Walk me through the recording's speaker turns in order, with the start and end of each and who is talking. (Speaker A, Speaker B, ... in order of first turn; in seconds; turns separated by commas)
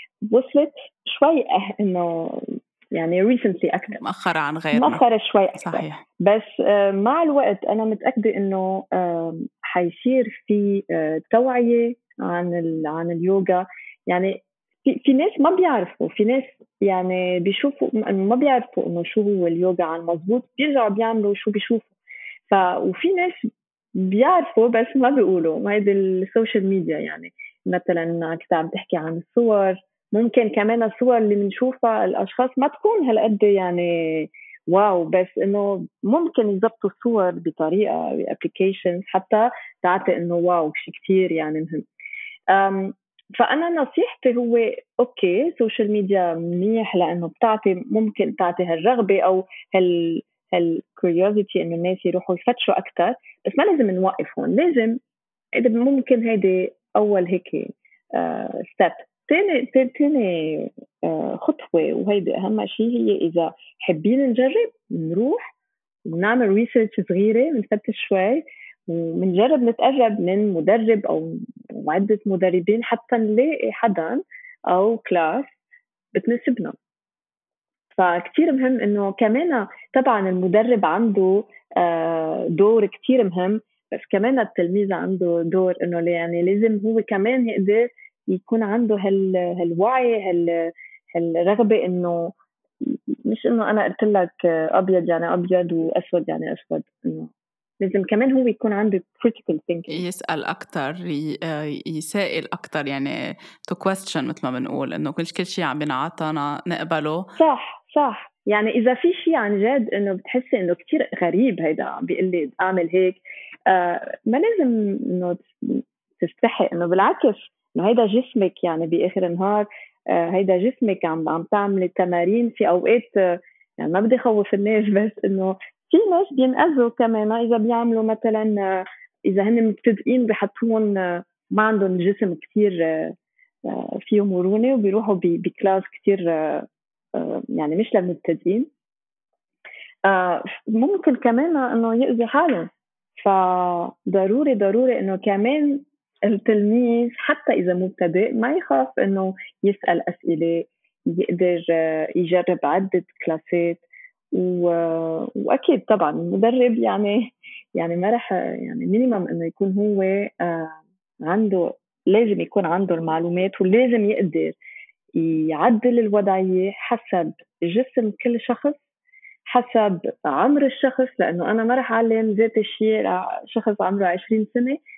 Speaker A: 0.3-4.0, Speaker B: 4.0-5.0, Speaker A: 4.7-21.9, Speaker B: 5.6-6.0, Speaker A: 22.5-41.8, Speaker A: 42.5-55.0, Speaker A: 55.6-65.5, Speaker A: 66.1-75.5, Speaker A: 76.1-76.8, Speaker A: 77.9-97.3, Speaker A: 97.8-100.0, Speaker B: 99.9-103.1, Speaker B: 103.7-107.2, Speaker A: 107.4-133.1, Speaker A: 133.7-138.7, Speaker A: 140.1-164.6, Speaker A: 165.2-168.8, Speaker A: 169.5-174.8